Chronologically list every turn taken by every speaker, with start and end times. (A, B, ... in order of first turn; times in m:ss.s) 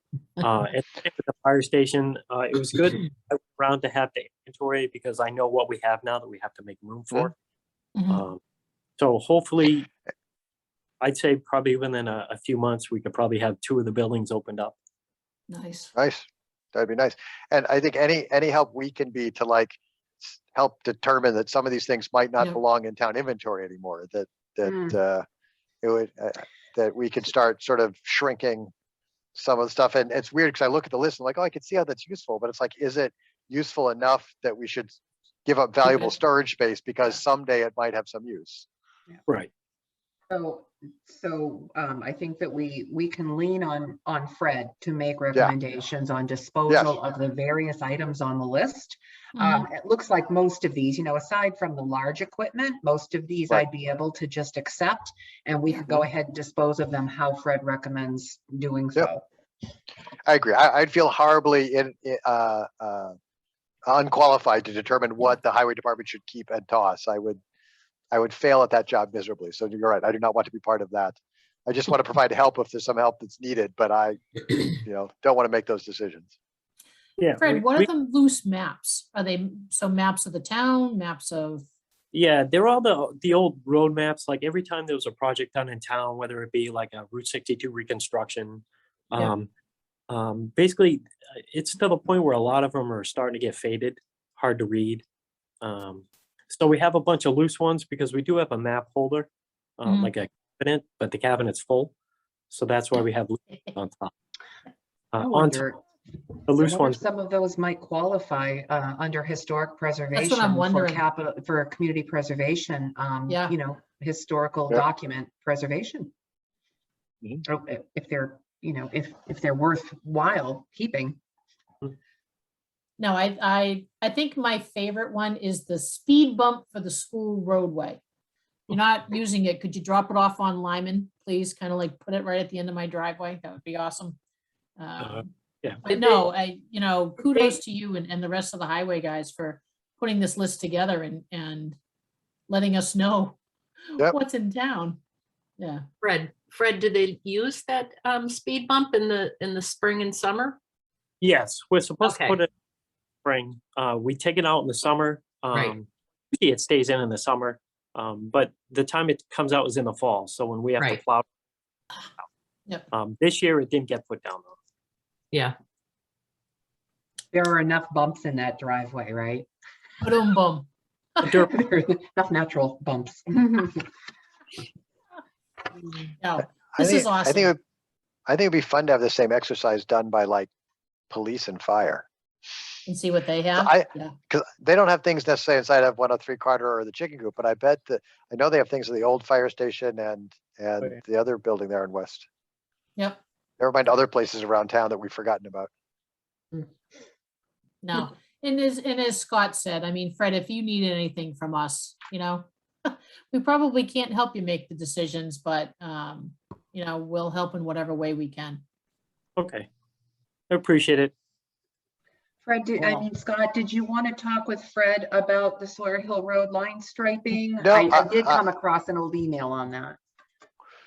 0:00.4-0:07.3 A
0:08.0-0:08.2 B
0:08.1-0:08.4 A
0:09.0-0:09.9 A
0:11.0-0:14.8 A
0:15.5-0:15.9 B
0:16.0-0:25.2 C
0:24.7-0:24.9 D
0:25.8-0:28.7 C
0:29.4-0:38.7 C
0:40.3-0:59.2 D
0:46.7-0:47.0 C
0:49.4-0:49.7 B
1:00.3-1:03.2 C
1:03.9-1:07.4 C
1:08.1-1:16.3 C
1:17.2-1:17.9 A
1:17.4-1:21.7 B
1:22.1-1:29.5 A
1:30.1-1:35.0 A
1:35.6-1:39.3 A
1:39.8-1:41.9 A
1:39.9-1:40.1 B
1:42.5-1:44.1 A
1:45.1-1:45.6 A
1:45.2-1:45.8 D
1:46.5-1:47.0 A
1:46.6-1:56.1 D
1:50.1-1:51.0 B
1:53.3-1:53.6 B
1:57.5-2:01.2 D
2:03.0-2:08.0 B
2:08.7-2:14.2 B
2:14.8-2:21.8 B
2:15.0-2:15.8 A
2:15.9-2:16.2 E
2:17.2-2:17.6 E
2:22.5-2:23.4 B
2:23.9-2:25.0 B
2:25.6-2:25.8 B
2:26.0-2:30.6 E
2:31.2-2:32.5 A
2:32.0-2:32.4 E
2:33.2-2:41.3 A
2:42.9-2:44.5 A
2:47.3-2:49.5 D
2:50.0-2:51.3 B
2:51.2-2:51.5 A
2:51.3-2:53.9 D
2:56.2-2:57.5 B
2:56.8-2:57.6 C
2:58.3-3:00.5 C
3:01.1-3:02.1 C
3:02.9-3:04.1 B
3:03.6-3:12.3 C
3:13.6-3:15.7 C
3:17.8-3:28.6 B
3:29.4-3:29.7 A
3:30.5-3:31.1 A
3:32.5-3:40.0 D
3:32.8-3:33.0 B
3:37.6-3:38.4 C